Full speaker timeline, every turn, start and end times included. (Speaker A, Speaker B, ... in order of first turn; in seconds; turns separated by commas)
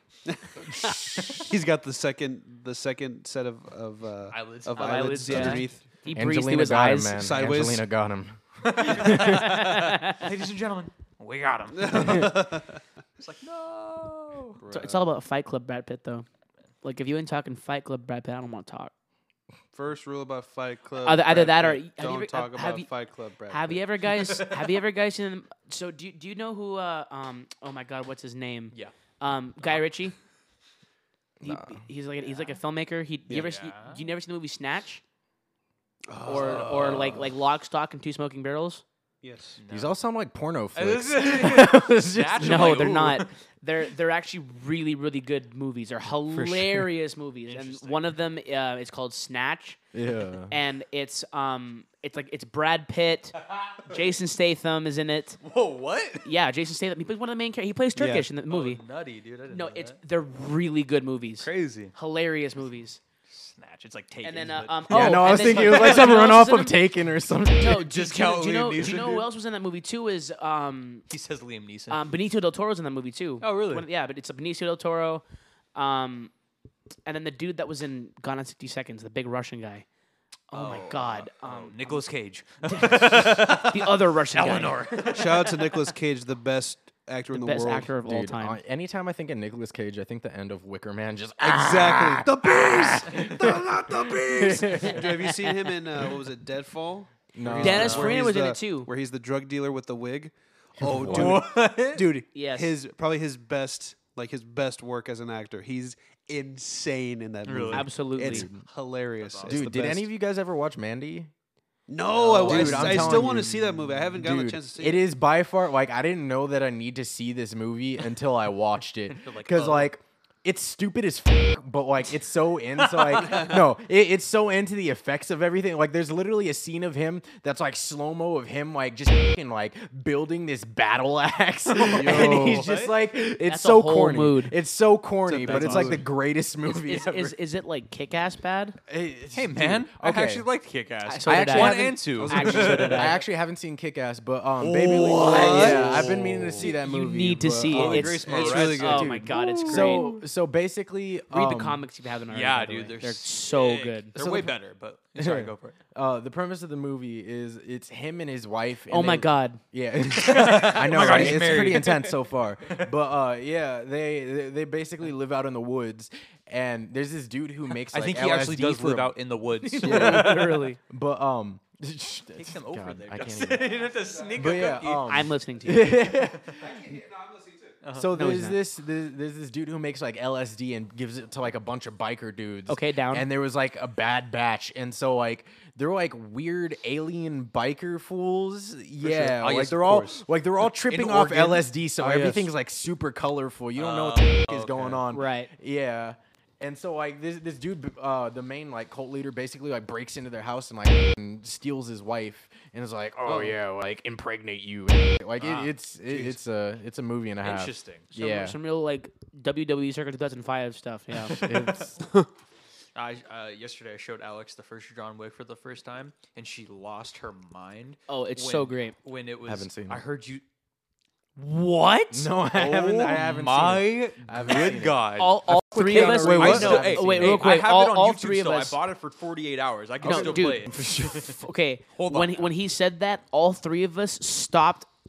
Speaker A: 0.3-5.8, Speaker B: 0.8-1.4, Speaker C: 4.3-5.8, Speaker D: 4.8-7.2, Speaker B: 6.1-9.6, Speaker A: 7.1-7.8, Speaker C: 8.6-12.5, Speaker D: 9.1-10.2, Speaker A: 11.7-12.8, Speaker C: 13.2-14.6, Speaker A: 14.6-15.1, Speaker D: 14.7-16.2, Speaker D: 16.8-18.9, Speaker A: 19.7-23.8, Speaker D: 21.0-22.9, Speaker D: 23.5-30.1, Speaker C: 24.2-24.6, Speaker B: 31.4-31.8, Speaker D: 31.4-35.0, Speaker C: 33.3-34.0, Speaker A: 36.1-37.2, Speaker C: 36.2-37.2, Speaker D: 36.2-38.8, Speaker A: 39.2-39.6, Speaker C: 39.6-40.0, Speaker B: 39.7-43.1, Speaker C: 40.7-43.3, Speaker D: 42.4-49.8, Speaker B: 46.3-46.9, Speaker C: 47.5-48.1, Speaker B: 49.9-50.5, Speaker D: 50.5-55.4, Speaker C: 55.4-56.3, Speaker D: 56.2-58.8, Speaker B: 58.0-58.2, Speaker C: 58.5-60.0, Speaker D: 59.5-63.0, Speaker C: 61.4-61.9, Speaker C: 63.3-66.2, Speaker D: 64.2-66.8, Speaker B: 64.9-67.9, Speaker D: 67.6-71.0, Speaker C: 67.7-69.3, Speaker C: 71.1-72.0, Speaker D: 71.9-75.2, Speaker C: 73.4-73.8, Speaker D: 75.7-76.3, Speaker D: 77.0-79.8, Speaker D: 80.5-82.0, Speaker C: 80.5-85.5, Speaker D: 82.6-85.3, Speaker A: 85.1-87.9, Speaker D: 87.3-88.6, Speaker B: 88.0-95.2, Speaker A: 91.4-110.1, Speaker B: 97.3-98.2, Speaker C: 97.6-98.2, Speaker D: 97.6-98.9, Speaker B: 100.8-101.4, Speaker C: 101.0-102.1, Speaker D: 102.3-102.8, Speaker C: 107.4-107.9, Speaker D: 107.7-108.5, Speaker B: 108.3-108.6, Speaker C: 109.2-109.7, Speaker B: 109.4-111.3, Speaker A: 111.9-115.0, Speaker C: 112.1-113.4, Speaker B: 112.4-137.4, Speaker C: 119.1-119.9, Speaker C: 122.8-123.6, Speaker A: 123.2-123.5, Speaker C: 131.7-132.9, Speaker D: 132.1-132.5, Speaker D: 133.4-134.5, Speaker A: 135.2-136.1, Speaker D: 135.5-135.9, Speaker D: 136.7-138.8, Speaker B: 138.9-140.5, Speaker C: 139.3-143.2, Speaker D: 141.1-143.2, Speaker B: 141.3-151.8, Speaker A: 142.1-143.2, Speaker C: 144.6-146.7, Speaker A: 145.1-146.3, Speaker D: 146.6-150.1, Speaker C: 147.7-150.2, Speaker A: 147.7-149.2, Speaker D: 151.3-154.1, Speaker C: 152.3-155.7, Speaker B: 154.2-154.5, Speaker B: 155.2-169.2, Speaker D: 158.9-159.6, Speaker C: 160.1-162.1, Speaker D: 160.9-161.8, Speaker C: 162.7-162.9, Speaker C: 167.9-170.6, Speaker D: 169.6-170.8, Speaker B: 169.8-176.8, Speaker C: 172.3-175.3, Speaker A: 174.0-174.7, Speaker D: 175.0-176.1, Speaker C: 176.1-176.5, Speaker A: 176.5-177.8, Speaker C: 177.8-178.1, Speaker B: 177.9-208.6, Speaker D: 178.1-178.6, Speaker D: 182.7-183.3, Speaker C: 189.0-191.7, Speaker A: 192.0-192.4, Speaker C: 193.8-195.0, Speaker D: 195.1-195.5, Speaker C: 205.4-205.7, Speaker A: 206.1-206.4, Speaker C: 207.4-208.1, Speaker D: 208.1-211.4, Speaker B: 211.3-212.0, Speaker A: 212.0-212.3, Speaker C: 212.9-220.4, Speaker D: 218.1-218.9, Speaker B: 219.5-220.0, Speaker D: 221.4-222.3, Speaker B: 222.1-227.5, Speaker C: 222.5-231.4, Speaker D: 225.2-228.8, Speaker A: 226.2-226.7, Speaker B: 230.0-231.3, Speaker D: 230.0-234.9, Speaker C: 231.9-232.5